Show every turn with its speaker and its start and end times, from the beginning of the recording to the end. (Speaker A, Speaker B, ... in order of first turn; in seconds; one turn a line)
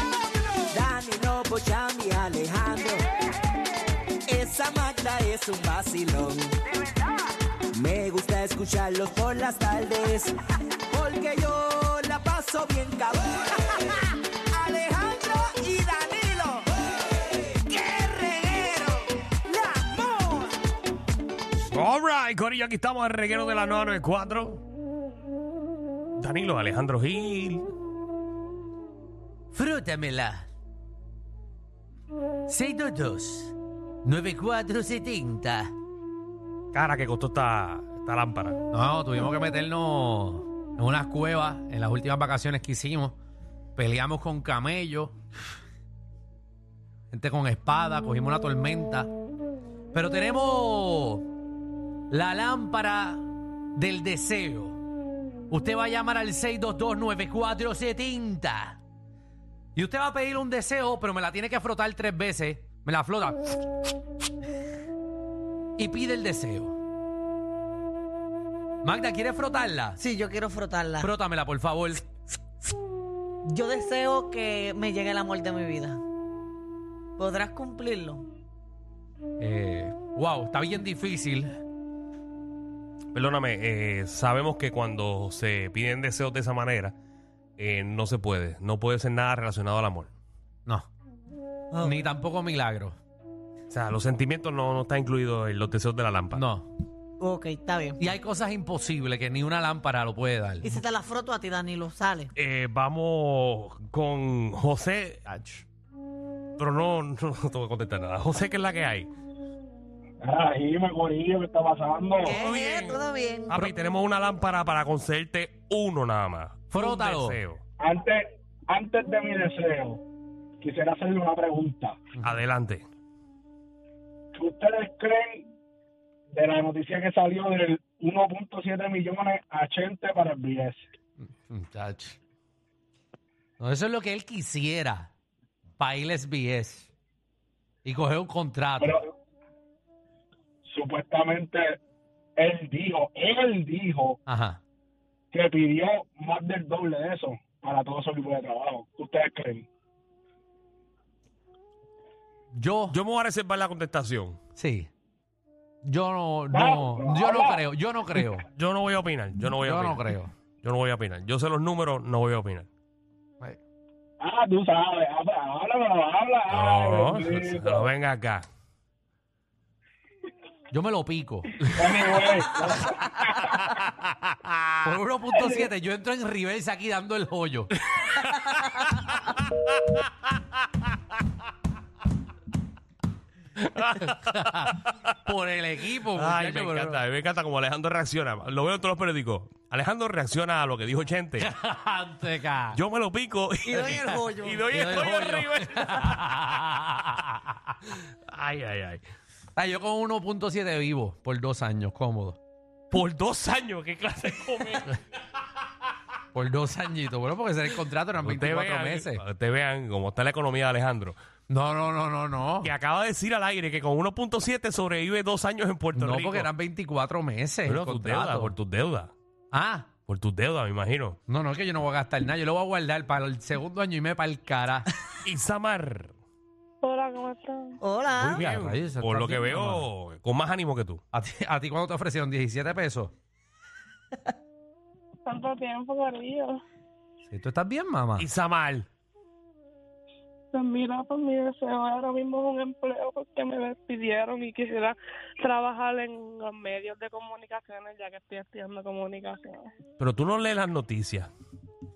Speaker A: 0.7-3.0
Speaker A: 4.3-6.6
Speaker A: 7.7-10.3
Speaker A: 10.9-13.9
Speaker A: 14.5-16.6
Speaker A: 17.7-19.9
Speaker B: 21.7-24.6
Speaker B: 26.2-27.7
Speaker C: 29.5-30.5
Speaker C: 32.5-35.7
Speaker B: 36.7-38.6
Speaker C: 38.7-43.2
Speaker C: 43.8-45.2
Speaker C: 47.1-49.1
Speaker C: 49.9-51.3
Speaker C: 52.1-54.8
Speaker C: 55.5-58.8
Speaker C: 59.7-63.5
Speaker C: 65.8-66.8
Speaker C: 68.8-70.0
Speaker D: 70.0-71.1
Speaker C: 71.0-72.0
Speaker D: 73.4-76.0
Speaker D: 77.2-78.2
Speaker C: 79.4-81.5
Speaker B: 83.1-87.0
Speaker B: 87.6-90.1
Speaker D: 91.7-92.0
Speaker C: 91.8-93.0
Speaker B: 93.7-96.4
Speaker C: 96.3-96.7
Speaker D: 97.2-98.0
Speaker C: 98.0-100.8
Speaker D: 100.6-102.3
Speaker B: 102.3-105.2
Speaker C: 105.3-105.6
Speaker B: 106.6-109.1
Speaker E: 110.2-112.4
Speaker D: 112.2-113.6
Speaker B: 112.3-117.6
Speaker C: 116.7-117.4
Speaker E: 117.8-120.0
Speaker E: 120.6-122.0
Speaker B: 122.2-122.8
Speaker E: 124.3-125.5
Speaker E: 126.3-130.8
Speaker C: 131.2-132.2
Speaker C: 133.6-135.1
Speaker C: 135.8-136.9
Speaker C: 137.8-139.0
Speaker E: 138.8-139.0
Speaker E: 140.6-141.8
Speaker E: 142.4-144.2
Speaker C: 144.3-144.6
Speaker E: 145.3-149.7
Speaker C: 152.5-153.0
Speaker B: 152.9-154.4
Speaker C: 154.6-154.9
Speaker C: 155.8-158.4
Speaker E: 156.5-157.6
Speaker B: 158.5-160.1
Speaker C: 159.6-160.3
Speaker B: 160.6-162.7
Speaker E: 164.2-167.9
Speaker B: 166.5-168.4
Speaker C: 170.7-171.6
Speaker E: 171.7-173.6
Speaker B: 173.8-174.7
Speaker C: 174.8-177.7
Speaker B: 183.6-184.9
Speaker C: 184.3-184.7
Speaker C: 185.2-187.0
Speaker B: 186.2-191.5
Speaker C: 191.4-192.8
Speaker B: 192.7-196.4
Speaker D: 193.7-194.7
Speaker C: 193.7-197.3
Speaker B: 198.3-199.0
Speaker C: 199.6-202.4
Speaker B: 202.9-205.0
Speaker C: 206.3-209.2
Speaker B: 208.2-211.2
Speaker C: 211.5-212.7
Speaker B: 212.6-216.5
Speaker C: 215.9-218.5
Speaker B: 217.7-219.1
Speaker C: 219.5-219.9
Speaker B: 220.1-221.2
Speaker C: 221.3-224.9
Speaker B: 225.2-226.1
Speaker F: 226.8-227.8
Speaker D: 227.8-228.4
Speaker B: 228.2-231.0
Speaker C: 228.2-229.9
Speaker C: 231.1-233.1
Speaker F: 235.2-236.6
Speaker C: 237.2-238.2
Speaker B: 238.2-238.9
Speaker F: 240.5-249.7
Speaker B: 250.0-251.3